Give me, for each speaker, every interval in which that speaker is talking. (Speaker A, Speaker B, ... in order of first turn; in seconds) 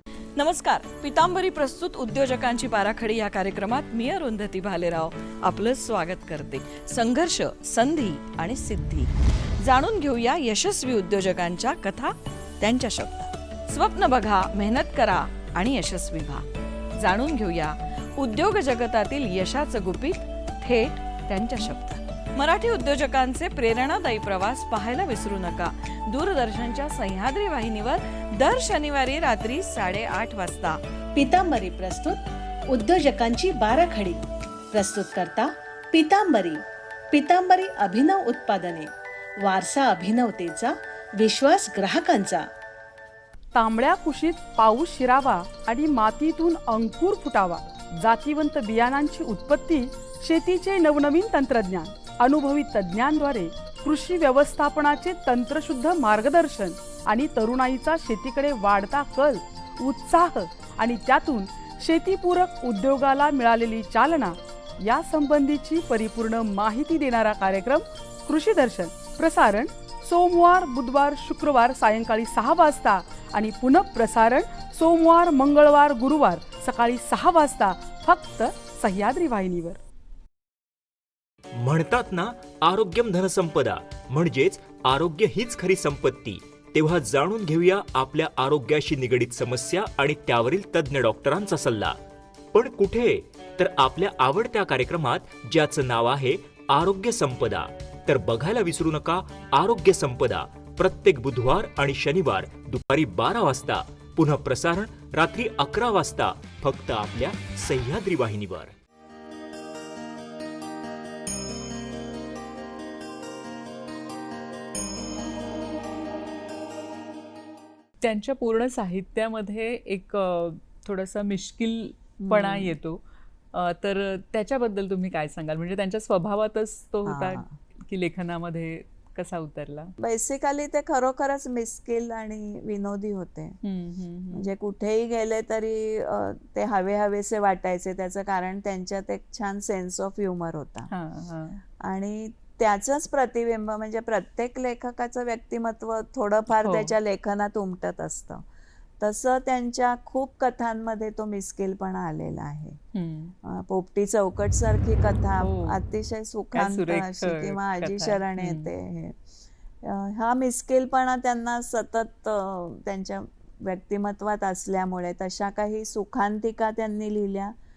Speaker A: 0.4-16.4, 17.0-30.8
Speaker B: 31.1-38.9, 39.4-42.5
Speaker C: 43.5-79.8
Speaker D: 81.6-92.0, 92.5-108.7
Speaker E: 118.0-123.0, 123.5-129.9, 133.6-134.5, 140.9-141.6, 146.5-146.9, 152.9-153.3, 155.4-155.8, 156.5-158.7
Speaker F: 122.2-122.8, 127.1-127.5, 130.0-133.6, 134.3-140.9, 141.8-148.4, 149.0-152.8, 153.4-159.2, 159.8-167.5